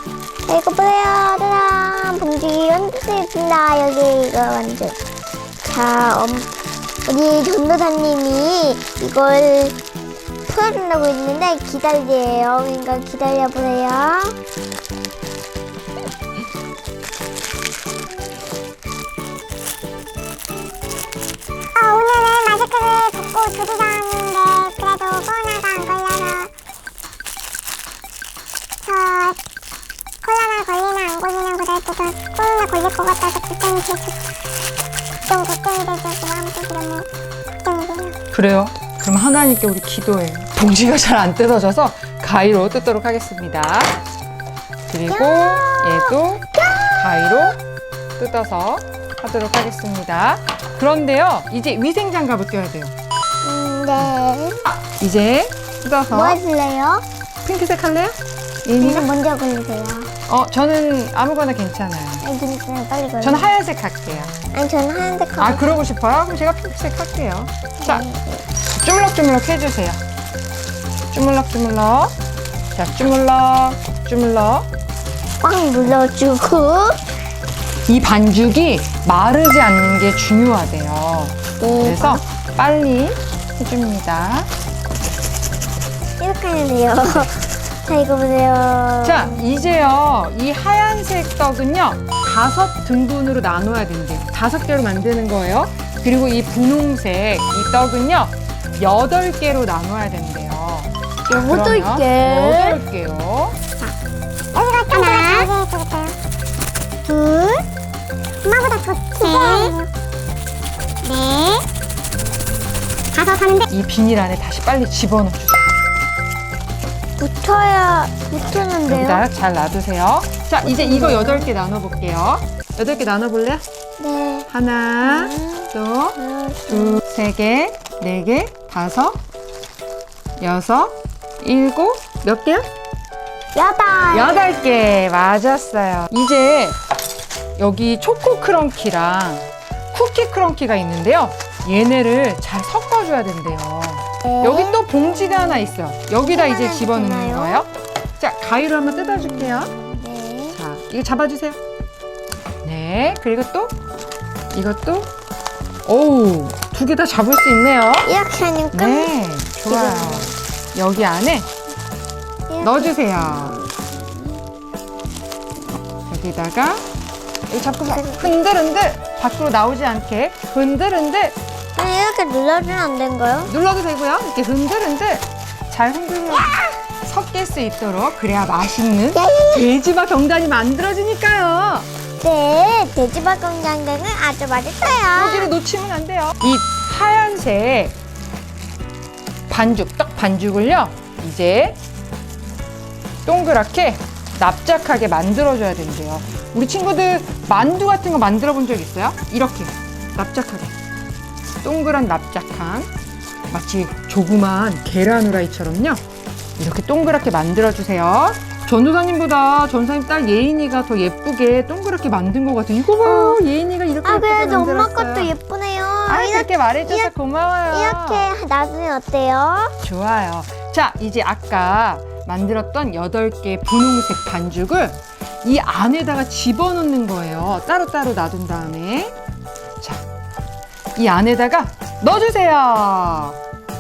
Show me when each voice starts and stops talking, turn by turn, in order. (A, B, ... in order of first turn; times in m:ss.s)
0:00.4-0:05.0 A
0:05.6-0:06.5 A
0:07.0-0:09.8 A
0:10.5-0:14.4 A
0:21.8-0:26.5 B
0:28.9-0:29.4 B
0:30.2-0:34.2 B
0:35.3-0:37.0 B
0:37.7-0:38.1 B
0:38.3-0:44.0 C
0:44.9-0:47.6 C
0:45.1-0:46.9 A
0:48.2-0:52.9 C
0:53.4-0:54.6 A
0:54.0-0:56.4 C
0:56.1-0:57.0 A
0:57.4-0:59.1 C
0:58.8-1:00.1 A
1:00.3-1:02.2 C
1:02.2-1:03.5 A
1:03.2-1:04.3 C
1:04.5-1:05.7 A
1:05.4-1:08.1 C
1:07.8-1:08.5 A
1:08.8-1:10.0 C
1:11.1-1:12.2 C
1:12.8-1:14.7 C
1:15.4-1:17.0 A
1:17.9-1:24.5 C
1:21.6-1:22.2 A
1:26.2-1:29.9 A
1:29.0-1:43.6 C
1:41.3-1:42.8 A
1:44.6-1:46.2 B
1:44.9-1:45.5 A
1:47.1-1:47.6 A
1:48.4-1:49.9 B
1:49.2-1:49.8 A
1:51.0-1:51.6 B
1:53.1-1:53.7 B
1:53.7-1:55.7 C
1:57.2-1:59.2 A
1:58.6-2:03.6 C
2:00.6-2:01.5 A
2:04.0-2:04.5 A
2:04.5-2:06.2 C
2:05.0-2:07.0 A
2:06.7-2:09.2 C
2:10.4-2:12.7 C
2:13.5-2:14.6 A
2:14.1-2:16.8 C
2:17.6-2:29.7 C
2:24.3-2:24.8 A
2:26.2-2:27.6 A
2:29.7-2:30.6 A
2:30.5-2:31.6 C
2:32.6-2:33.8 C
2:34.5-2:35.1 C
2:35.9-2:38.1 C
2:38.0-2:39.1 A
2:38.7-2:41.5 C
2:39.7-2:40.3 A
2:42.5-2:44.4 A
2:42.6-2:43.6 C
2:46.0-2:46.8 C
2:47.5-2:51.4 C
2:47.8-2:48.4 A
2:51.8-2:53.5 A
2:53.4-3:01.9 C
2:59.1-2:59.7 A
3:02.2-3:05.5 A
3:05.2-3:08.0 C
3:09.5-3:11.8 C
3:13.3-3:20.8 C
3:21.6-3:22.9 C
3:23.5-3:26.0 C
3:26.6-3:35.3 C
3:33.0-3:33.4 A
3:34.0-3:37.1 A
3:36.1-3:38.3 C
3:37.7-3:39.8 A
3:39.8-3:49.1 C
3:51.0-3:53.4 C